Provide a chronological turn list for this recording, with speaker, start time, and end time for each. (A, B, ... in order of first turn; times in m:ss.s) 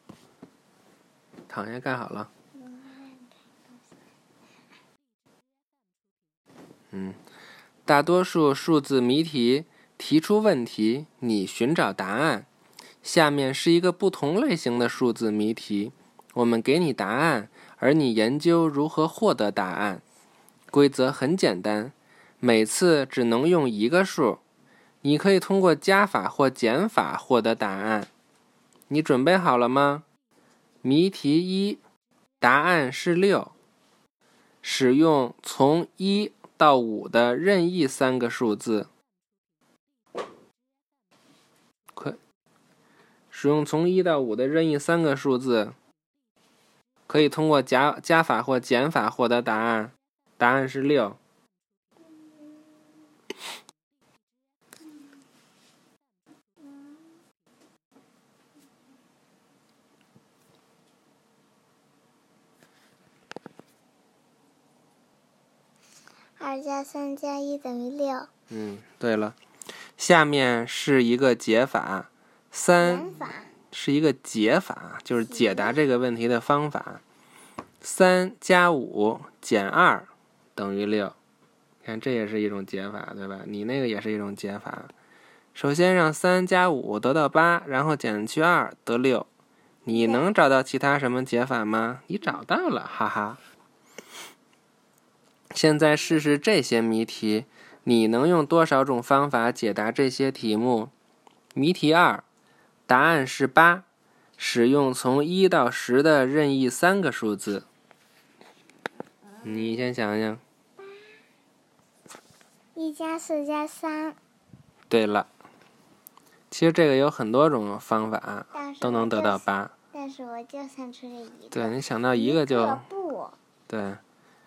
0:01.5-0:02.3 A
0:02.5-0:03.8 B
0:06.9-0:07.2 A
0:07.8-0:12.5 A
0:13.0-0:20.0 A
0:20.7-0:24.4 A
0:25.0-0:28.1 A
0:28.9-0:30.0 A
0:30.8-0:31.8 A
0:32.4-0:33.5 A
0:34.6-0:38.9 A
0:43.3-0:45.7 A
0:47.1-0:51.2 A
0:52.1-0:52.9 B
0:56.6-0:57.0 B
1:06.4-1:08.3 B
1:08.5-1:09.4 A
1:10.0-1:13.1 A
1:12.8-1:13.5 B
1:13.7-1:17.0 A
1:15.3-1:15.8 B
1:17.8-1:21.2 A
1:21.8-1:24.9 A
1:25.5-1:29.3 A
1:29.8-1:33.4 A
1:29.9-1:30.3 B
1:35.5-1:40.9 A
1:41.5-1:42.2 A
1:42.9-1:43.8 A
1:44.4-1:47.6 A
1:49.3-1:49.9 B
1:49.4-1:50.4 A
1:50.8-1:51.1 B
1:52.7-1:54.2 B
1:54.9-1:55.3 A
1:56.5-1:59.7 A
1:58.5-2:03.4 B
2:01.5-2:02.8 A
2:03.7-2:04.0 A